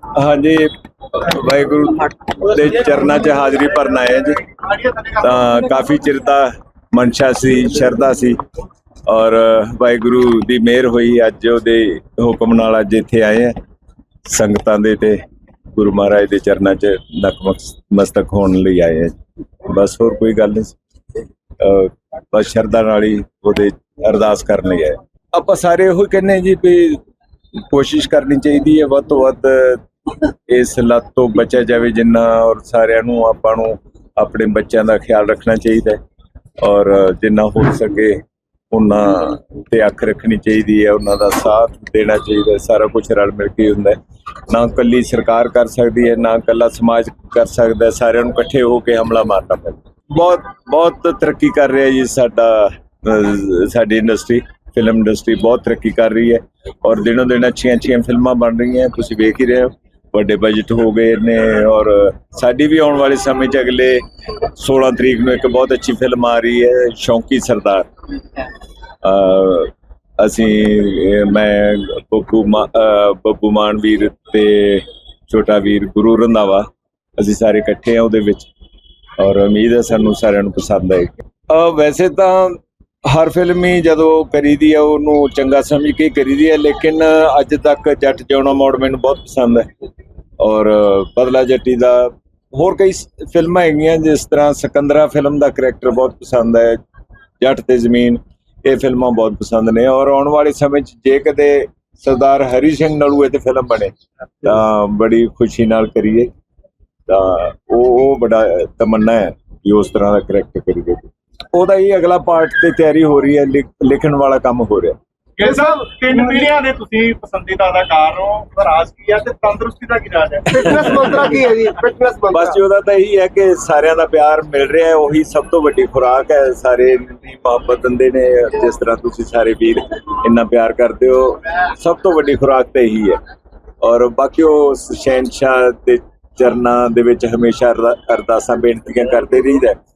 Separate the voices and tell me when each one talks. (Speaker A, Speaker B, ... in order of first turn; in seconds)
Speaker A: 0.1-4.5, 5.1-8.4, 9.1-13.6, 14.2-20.8, 21.6-27.0, 27.6-36.0, 36.6-68.5, 69.0-78.5, 79.2-89.7, 90.4-96.8, 97.4-106.3, 107.1-115.0, 120.6-121.1, 122.3-133.2, 133.8-139.8
Speaker B: 4.6-5.2, 115.4-120.5
Speaker C: 120.5-122.5